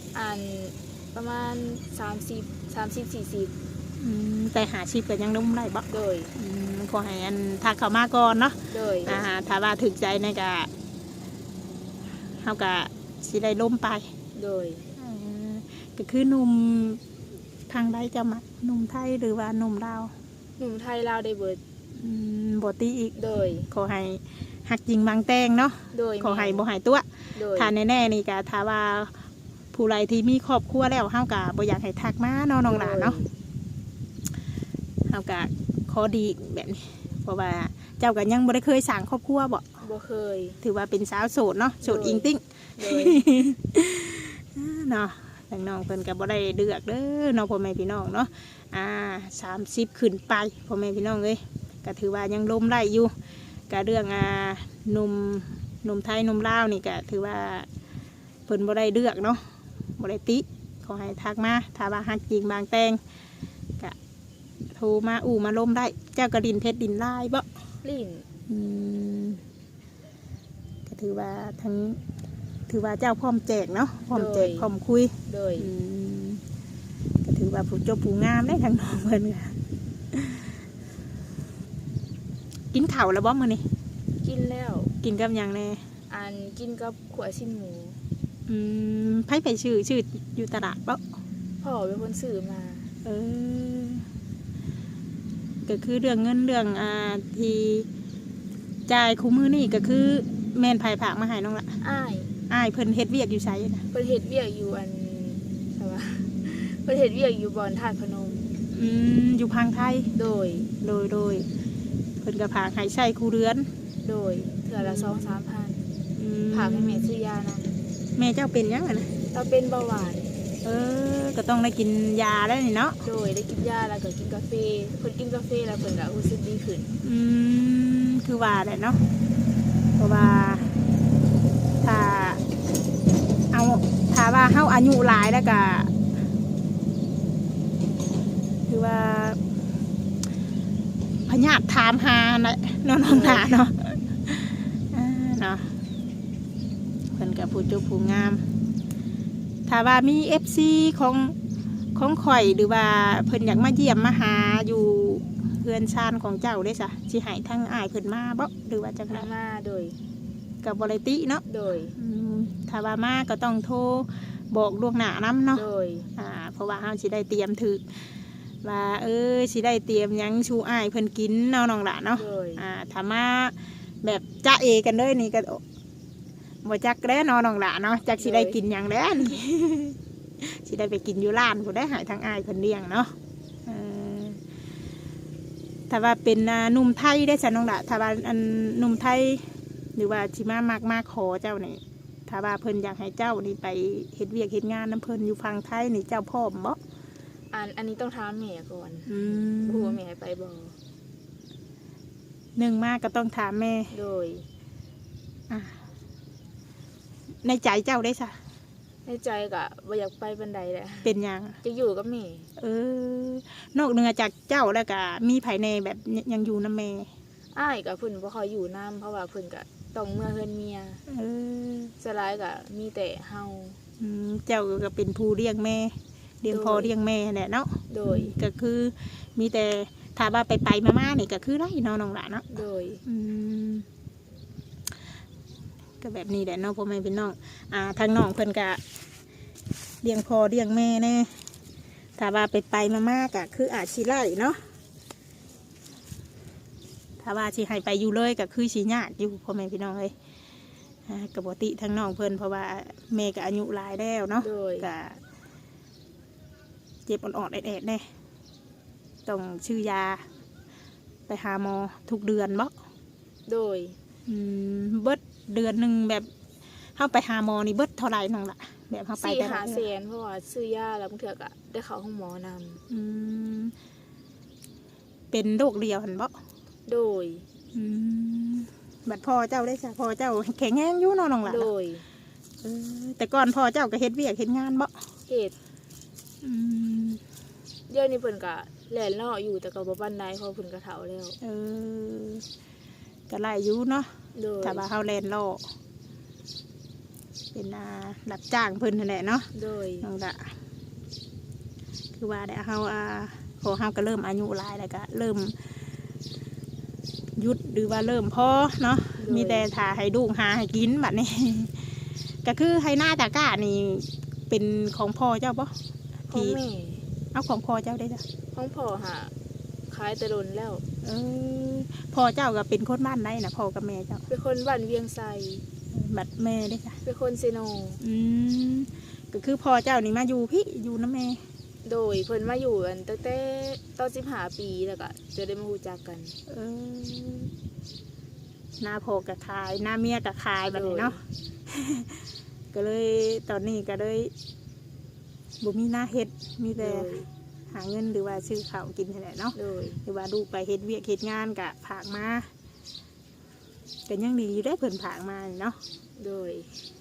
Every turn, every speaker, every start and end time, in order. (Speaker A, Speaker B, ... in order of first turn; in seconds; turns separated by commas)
Speaker A: 0.1-3.5, Speaker B: 4.0-10.7, Speaker A: 5.9-6.3, Speaker A: 8.7-9.2, Speaker B: 12.4-14.1, Speaker A: 14.3-14.9, Speaker B: 14.9-17.0, Speaker B: 17.7-20.1, Speaker A: 20.6-21.6, Speaker B: 22.0-23.2, Speaker A: 23.2-23.7, Speaker B: 23.7-29.1, Speaker A: 25.9-26.6, Speaker A: 27.4-27.7, Speaker B: 29.7-33.2, Speaker A: 32.6-33.3, Speaker B: 35.1-39.6, Speaker A: 39.8-40.6, Speaker B: 40.6-53.1, Speaker A: 41.8-43.2, Speaker B: 53.7-57.7, Speaker B: 58.5-63.0, Speaker B: 64.7-67.5, Speaker A: 67.8-68.3, Speaker B: 68.5-69.4, Speaker B: 70.9-72.0, Speaker B: 72.7-76.4, Speaker A: 74.1-74.7, Speaker A: 75.3-75.7, Speaker B: 77.2-79.6, Speaker B: 80.1-80.5, Speaker B: 82.7-83.6, Speaker A: 84.2-84.9, Speaker B: 85.0-85.8, Speaker A: 86.1-88.0, Speaker B: 88.5-91.0, Speaker A: 91.6-92.9, Speaker B: 93.0-94.1, Speaker B: 95.7-97.9, Speaker B: 98.9-101.7, Speaker A: 101.8-102.3, Speaker B: 102.5-103.8, Speaker A: 103.9-108.6, Speaker B: 108.7-110.1, Speaker A: 110.2-110.7, Speaker B: 110.8-111.5, Speaker B: 112.2-113.7, Speaker A: 114.0-115.9, Speaker B: 114.8-115.4, Speaker B: 116.2-117.1, Speaker A: 116.5-117.7, Speaker B: 118.2-119.1, Speaker A: 119.3-120.3, Speaker B: 120.6-123.0, Speaker A: 123.0-126.9, Speaker B: 127.0-129.0, Speaker B: 130.0-130.8, Speaker B: 131.8-132.4, Speaker B: 133.5-135.9, Speaker B: 138.7-139.4, Speaker B: 141.3-145.7, Speaker A: 143.1-143.6, Speaker B: 147.1-148.4, Speaker B: 149.7-151.3, Speaker B: 151.9-159.3, Speaker A: 159.1-160.0, Speaker B: 160.6-161.4, Speaker A: 161.5-161.9, Speaker B: 162.0-165.7, Speaker A: 165.5-166.1, Speaker B: 166.2-167.8, Speaker B: 168.6-175.6, Speaker A: 172.2-172.6, Speaker B: 176.6-183.1, Speaker A: 178.2-178.6, Speaker B: 183.7-184.4, Speaker B: 185.9-196.8, Speaker A: 197.5-200.8, Speaker B: 199.1-200.0, Speaker B: 202.6-203.9, Speaker A: 203.9-204.5, Speaker B: 205.5-205.8, Speaker B: 207.4-208.4, Speaker A: 209.1-211.1, Speaker B: 211.0-211.6, Speaker A: 211.6-212.5, Speaker B: 212.6-217.1, Speaker A: 217.5-221.0, Speaker B: 221.1-221.9, Speaker A: 222.0-223.8, Speaker B: 224.0-232.5, Speaker A: 226.5-226.9, Speaker A: 227.9-228.3, Speaker A: 232.5-233.1, Speaker B: 233.1-233.9, Speaker B: 236.0-238.8, Speaker B: 240.0-241.4, Speaker B: 242.2-244.6, Speaker B: 247.2-250.1, Speaker B: 251.1-255.2, Speaker A: 254.4-254.9, Speaker B: 257.1-258.0, Speaker B: 259.3-260.2, Speaker B: 261.3-262.7, Speaker A: 263.5-264.0, Speaker B: 264.3-266.3, Speaker B: 267.0-269.9, Speaker A: 269.2-272.8, Speaker B: 272.9-273.7, Speaker B: 275.3-276.4, Speaker A: 276.9-277.4, Speaker B: 277.7-281.7, Speaker A: 281.4-282.1, Speaker B: 282.6-284.9, Speaker A: 285.3-285.5, Speaker B: 286.4-287.2, Speaker A: 287.9-291.4, Speaker B: 291.4-292.4, Speaker B: 293.3-294.1, Speaker A: 294.4-294.8, Speaker B: 294.6-295.6, Speaker B: 297.5-299.5, Speaker A: 299.5-300.1, Speaker B: 300.0-300.6, Speaker B: 302.2-305.6, Speaker B: 307.4-311.9, Speaker A: 309.2-309.7, Speaker B: 312.4-315.7, Speaker A: 316.3-317.0, Speaker B: 316.3-316.6, Speaker B: 317.3-318.2, Speaker A: 318.5-319.3, Speaker A: 319.9-320.8, Speaker B: 321.0-324.2, Speaker A: 324.3-325.6, Speaker B: 325.9-327.0, Speaker A: 327.1-328.0, Speaker B: 328.0-331.4, Speaker A: 331.9-336.4, Speaker B: 336.5-337.5, Speaker B: 338.8-342.2, Speaker A: 340.7-341.2, Speaker B: 342.7-344.3, Speaker B: 345.6-347.1, Speaker A: 346.8-347.3, Speaker B: 347.7-352.5, Speaker A: 349.6-350.0, Speaker B: 354.1-355.8, Speaker A: 356.2-356.8